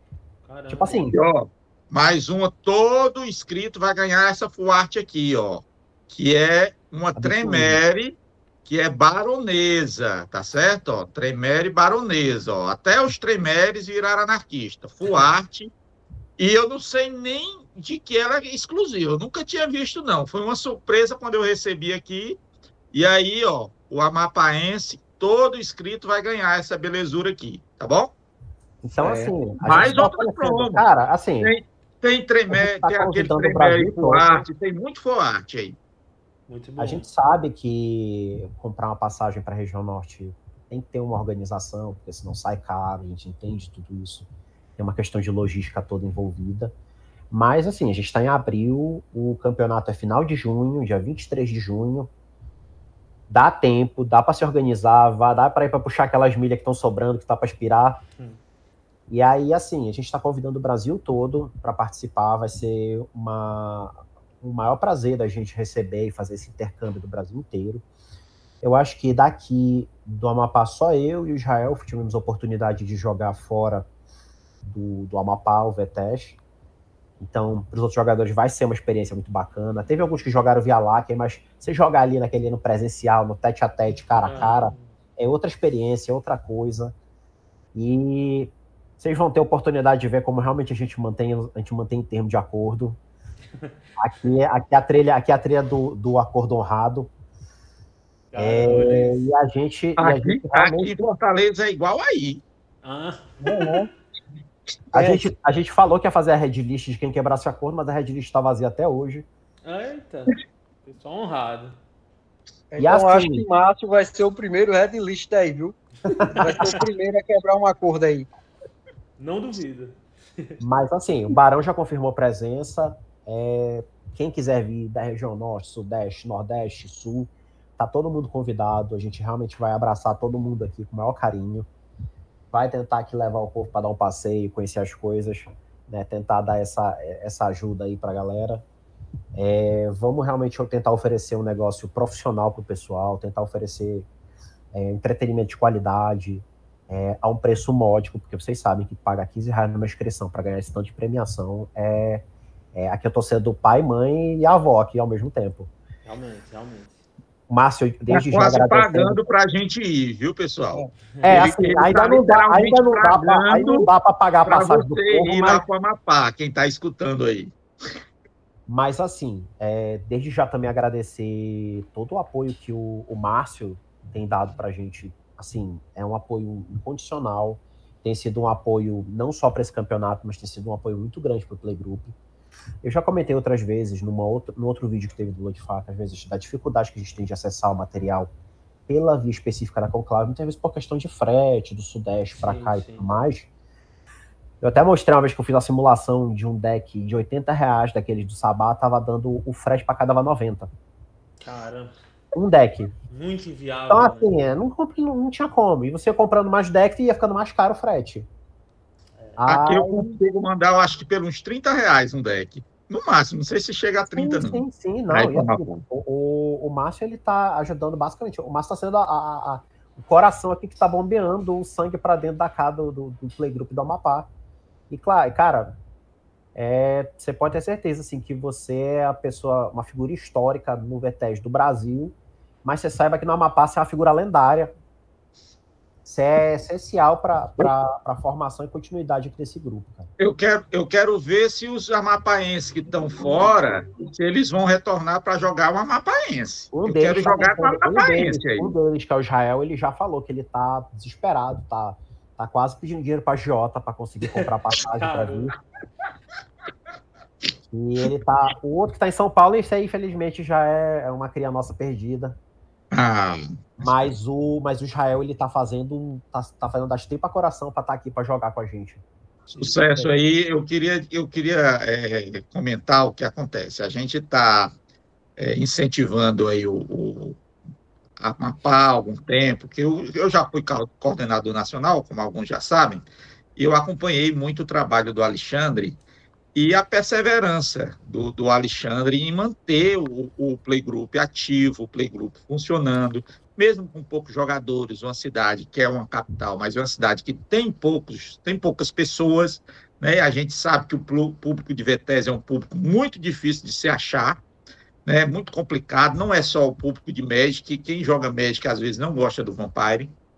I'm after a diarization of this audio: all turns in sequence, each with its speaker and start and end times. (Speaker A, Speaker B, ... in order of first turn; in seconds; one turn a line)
Speaker A: 0.4-1.0
Speaker B: 0.7-1.2
Speaker C: 1.1-15.7
Speaker B: 7.1-7.8
Speaker C: 16.4-22.4
Speaker C: 22.9-28.1
Speaker B: 28.8-31.5
Speaker D: 29.0-29.3
Speaker C: 29.6-30.8
Speaker C: 31.4-35.8
Speaker B: 32.5-34.4
Speaker A: 36.5-37.1
Speaker B: 36.8-46.7
Speaker B: 47.3-52.1
Speaker B: 53.3-58.0
Speaker B: 59.1-67.8
Speaker B: 68.6-73.9
Speaker B: 74.6-76.4
Speaker B: 77.2-87.0
Speaker A: 84.2-84.9
Speaker B: 87.7-93.0
Speaker B: 94.0-97.1
Speaker A: 98.3-99.3
Speaker B: 98.4-101.0
Speaker C: 100.0-102.4
Speaker A: 102.8-103.3
Speaker D: 103.4-103.9
Speaker B: 104.9-109.3
Speaker D: 104.9-105.2
Speaker A: 109.6-111.8
Speaker D: 112.7-115.8
Speaker B: 112.8-113.5
Speaker A: 116.2-116.7
Speaker B: 116.2-116.8
Speaker D: 116.3-118.3
Speaker A: 119.2-120.6
Speaker B: 120.6-131.7
Speaker B: 132.5-138.6
Speaker B: 139.3-144.1
Speaker B: 144.7-155.7
Speaker A: 156.1-157.0
Speaker B: 157.5-159.2
Speaker C: 158.1-163.9
Speaker B: 161.2-165.6
Speaker C: 164.4-167.5
Speaker B: 168.7-182.2
Speaker B: 182.8-188.3
Speaker B: 188.9-193.5
Speaker A: 192.4-193.1
Speaker B: 194.6-200.7
Speaker A: 201.4-201.9
Speaker B: 202.3-202.9
Speaker A: 203.1-204.3
Speaker B: 203.9-208.3
Speaker B: 209.4-210.1
Speaker C: 209.4-215.8
Speaker B: 214.1-224.3
Speaker B: 224.9-225.7
Speaker B: 226.5-234.7
Speaker B: 236.0-240.1
Speaker C: 240.2-248.7
Speaker B: 246.7-255.6
Speaker A: 254.9-255.5
Speaker B: 257.7-262.4
Speaker C: 262.9-264.1
Speaker B: 263.8-269.0
Speaker C: 269.5-274.7
Speaker D: 269.6-270.1
Speaker C: 275.4-277.4
Speaker C: 278.2-286.0
Speaker C: 286.5-304.4
Speaker C: 305.0-310.1